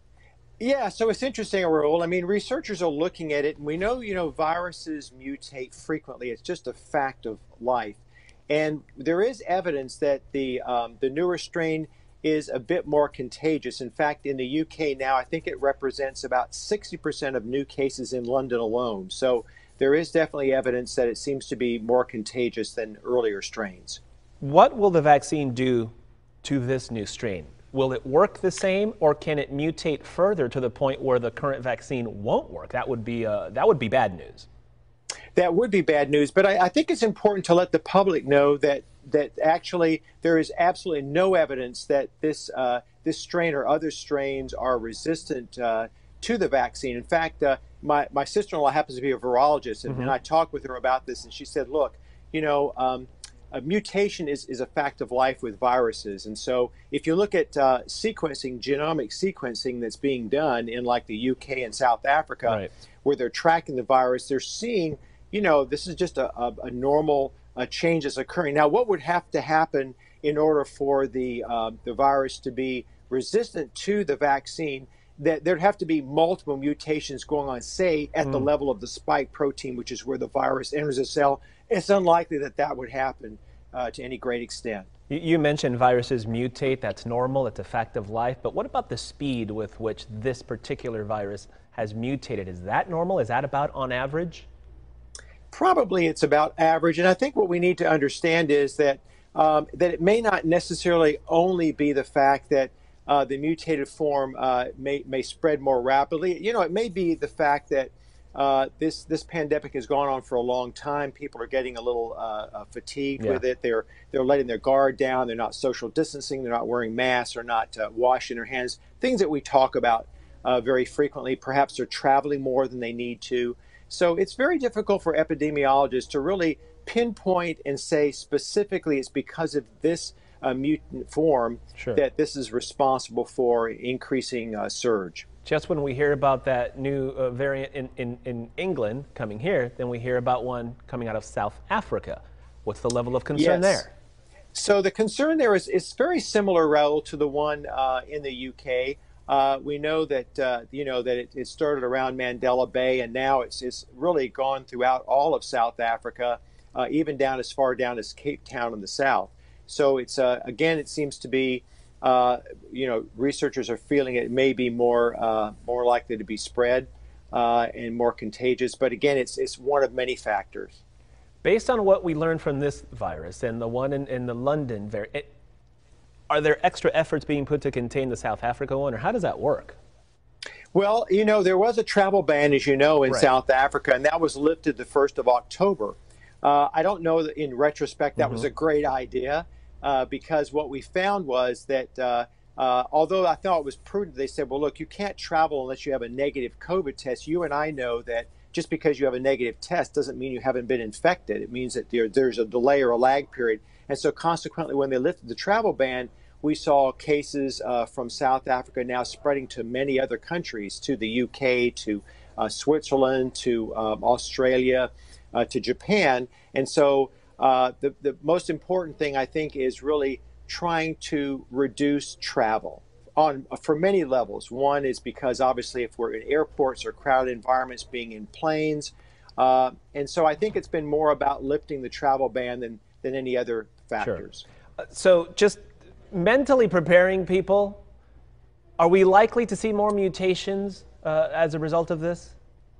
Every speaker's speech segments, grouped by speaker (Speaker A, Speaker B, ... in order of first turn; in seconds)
Speaker A: 0.6-24.0, 35.3-84.9, 95.5-135.2, 143.3-143.8, 144.5-170.8, 180.7-234.4
Speaker B: 24.4-25.9, 26.4-34.5, 49.9-50.1, 85.1-94.5, 135.4-143.9, 171.4-175.3, 176.3-179.8, 188.2-188.4, 234.8-235.6, 236.1-237.8, 238.8-242.3